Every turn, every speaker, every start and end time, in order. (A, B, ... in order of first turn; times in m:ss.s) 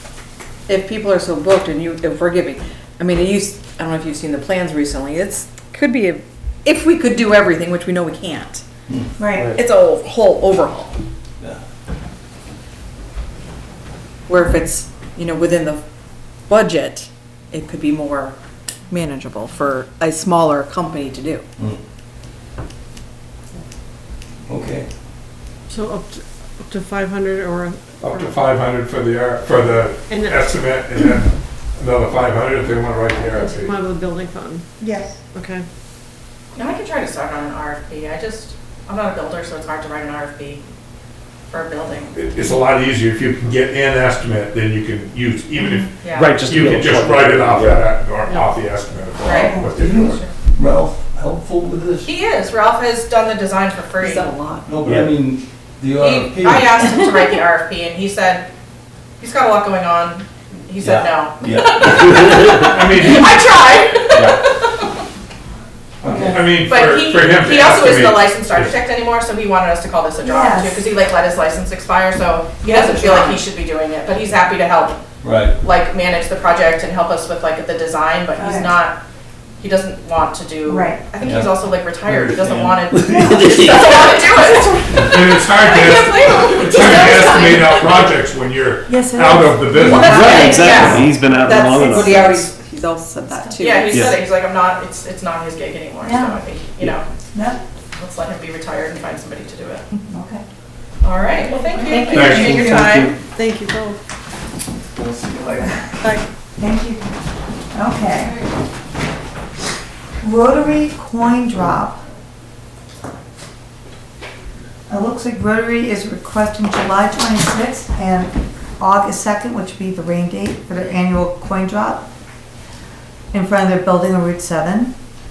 0:00.7-0:08.6 A
0:09.2-0:09.6 B
0:09.3-0:11.0 A
0:14.3-0:15.8 A
0:16.5-0:18.4 A
0:18.9-0:21.5 A
0:24.5-0:24.9 C
0:25.7-0:28.3 D
0:28.0-0:33.7 E
0:30.1-0:30.5 D
0:33.3-0:34.7 D
0:34.8-0:35.2 B
0:35.3-0:35.7 D
0:36.6-0:40.6 F
0:41.5-0:42.2 F
0:42.2-0:45.9 E
0:46.0-0:46.3 F
0:46.1-0:47.9 G
0:46.5-0:50.2 E
0:49.2-0:50.3 F
0:49.3-0:49.7 B
0:49.7-0:52.1 C
0:52.0-0:54.3 F
0:54.0-0:54.7 A
0:54.7-0:56.8 C
0:56.0-0:58.5 F
0:59.2-1:04.9 F
1:00.8-1:02.4 C
1:02.6-1:03.5 E
1:06.0-1:08.8 E
1:06.0-1:06.6 C
1:06.1-1:06.5 B
1:06.6-1:15.0 F
1:10.2-1:10.8 B
1:12.6-1:13.3 B
1:15.2-1:15.6 C
1:15.6-1:19.0 F
1:18.4-1:18.7 B
1:19.6-1:27.9 F
1:20.7-1:21.0 B
1:21.2-1:24.2 C
1:24.9-1:30.6 E
1:28.9-1:30.2 B
1:29.8-1:34.1 A
1:29.9-1:32.4 G
1:29.9-1:31.1 F
1:30.8-1:31.0 C
1:32.0-1:32.5 B
1:33.3-1:33.6 B
1:33.6-1:37.0 F
1:36.0-1:36.4 B
1:37.3-1:37.6 B
1:37.9-1:39.8 F
1:40.1-1:40.4 B
1:41.0-1:43.1 F
1:41.5-1:43.1 A
1:41.9-1:42.7 B
1:42.1-1:42.6 E
1:42.3-1:43.2 G
1:43.4-1:44.0 D
1:44.9-1:47.1 B
1:47.7-1:48.4 B
1:50.2-1:52.0 B
1:54.9-2:02.0 B
2:03.3-2:05.0 B